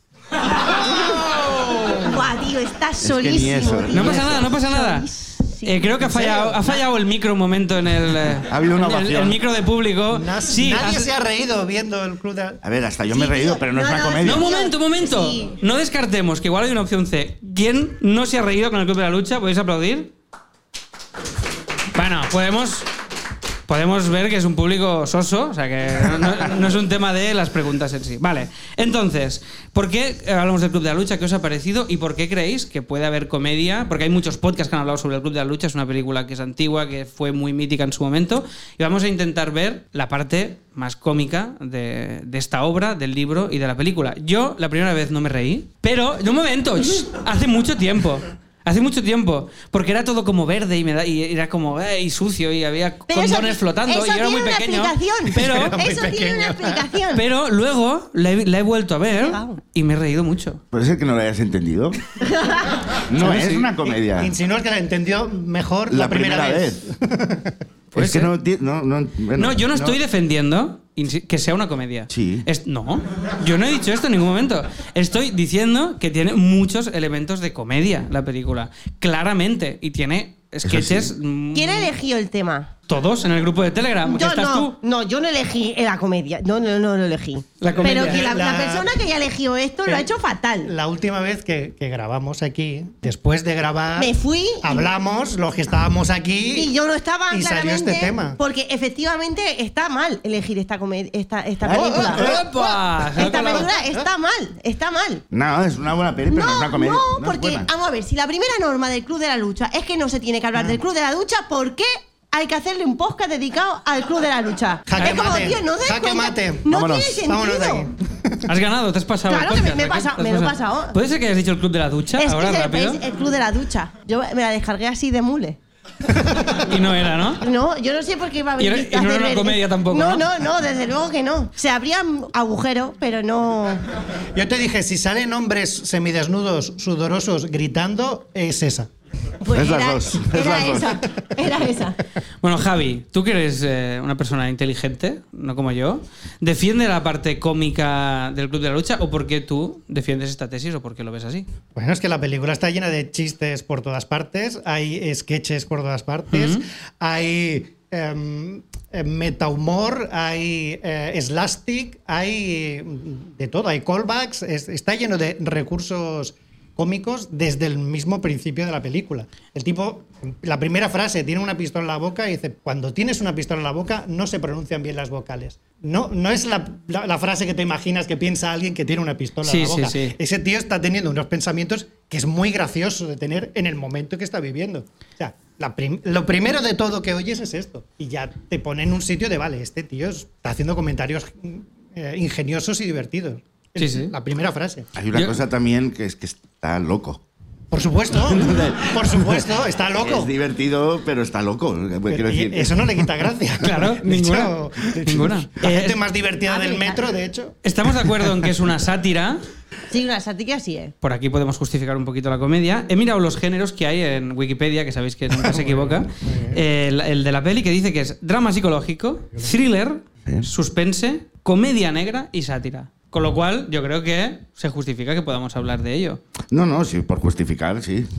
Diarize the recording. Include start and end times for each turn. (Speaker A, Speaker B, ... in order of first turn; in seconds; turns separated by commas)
Speaker A: 1.9-6.8, Speaker B: 3.0-4.5, Speaker C: 3.9-5.1, Speaker C: 5.6-11.1, Speaker B: 8.5-9.4, Speaker D: 10.1-12.6, Speaker B: 12.6-14.5, Speaker A: 13.1-15.5, Speaker C: 14.2-20.1, Speaker C: 21.9-22.9, Speaker C: 23.7-55.8, Speaker A: 53.1-57.2, Speaker D: 55.6-56.9, Speaker C: 57.1-60.6, Speaker A: 59.2-59.6, Speaker B: 60.7-62.0, Speaker A: 62.2-62.7, Speaker B: 63.1-64.3, Speaker D: 63.1-67.5, Speaker B: 65.9-66.9, Speaker C: 67.9-68.3, Speaker B: 67.9-70.0, Speaker C: 69.3-81.9, Speaker B: 72.1-72.5, Speaker B: 80.6-81.1, Speaker A: 81.5-82.7, Speaker C: 82.9-84.8, Speaker A: 84.0-90.7, Speaker C: 87.6-88.3, Speaker D: 87.7-88.9, Speaker D: 90.6-96.7, Speaker A: 94.0-94.9, Speaker A: 96.5-102.4, Speaker D: 97.3-98.4, Speaker B: 101.6-102.5, Speaker D: 101.7-102.7, Speaker C: 102.0-103.7, Speaker A: 103.2-105.2, Speaker B: 105.3-107.7, Speaker A: 106.3-117.9, Speaker D: 114.9-116.7, Speaker B: 116.7-117.2, Speaker D: 117.2-118.4, Speaker C: 118.4-123.0, Speaker A: 119.3-121.0, Speaker A: 122.2-125.6, Speaker D: 126.1-126.7, Speaker C: 126.5-127.4, Speaker A: 127.4-133.8, Speaker C: 128.6-130.3, Speaker D: 134.3-138.9, Speaker A: 139.4-142.0, Speaker B: 139.5-141.0, Speaker C: 142.4-151.4, Speaker D: 151.7-194.9, Speaker C: 156.3-156.6, Speaker C: 179.4-180.1, Speaker C: 193.8-194.1, Speaker B: 194.9-197.2, Speaker C: 195.1-195.4, Speaker D: 197.7-200.3, Speaker B: 198.3-203.1, Speaker D: 202.1-207.6, Speaker C: 203.6-206.0, Speaker A: 206.5-207.1, Speaker C: 207.6-209.4, Speaker A: 209.9-210.9, Speaker C: 211.0-226.2, Speaker D: 215.4-216.6, Speaker B: 226.5-228.1